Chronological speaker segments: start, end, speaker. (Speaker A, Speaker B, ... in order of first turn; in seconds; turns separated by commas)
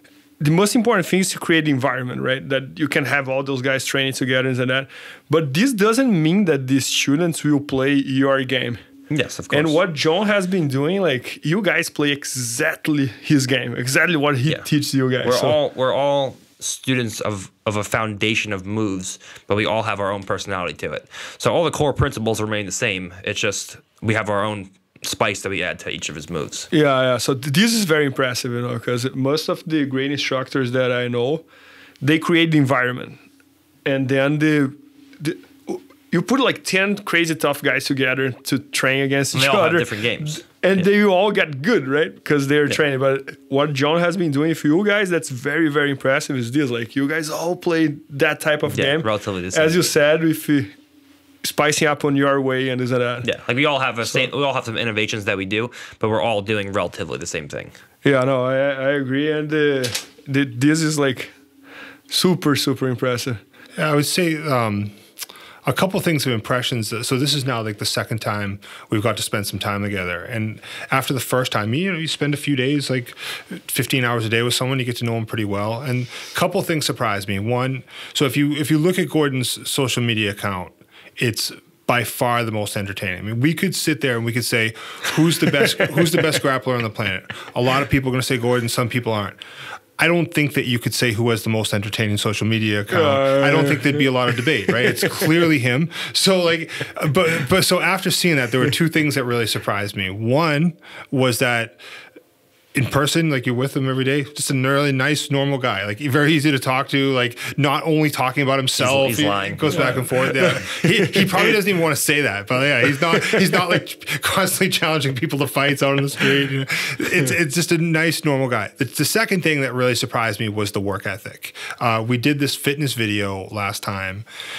Speaker A: 0.4-8.8, Speaker B: 9.1-9.8, Speaker A: 9.5-15.6, Speaker B: 15.2-26.7, Speaker A: 26.7-31.4, Speaker A: 32.0-33.2, Speaker A: 33.8-50.7, Speaker B: 39.3-40.9, Speaker B: 48.7-49.9, Speaker A: 51.4-53.3, Speaker B: 53.2-57.7, Speaker A: 58.0-61.3, Speaker A: 62.1-63.4, Speaker C: 63.8-65.0, Speaker C: 65.6-89.4, Speaker A: 86.0-86.3, Speaker C: 90.0-101.8, Speaker A: 92.9-95.3, Speaker C: 102.7-124.2, Speaker B: 108.8-110.1, Speaker A: 109.7-111.5, Speaker A: 113.1-113.4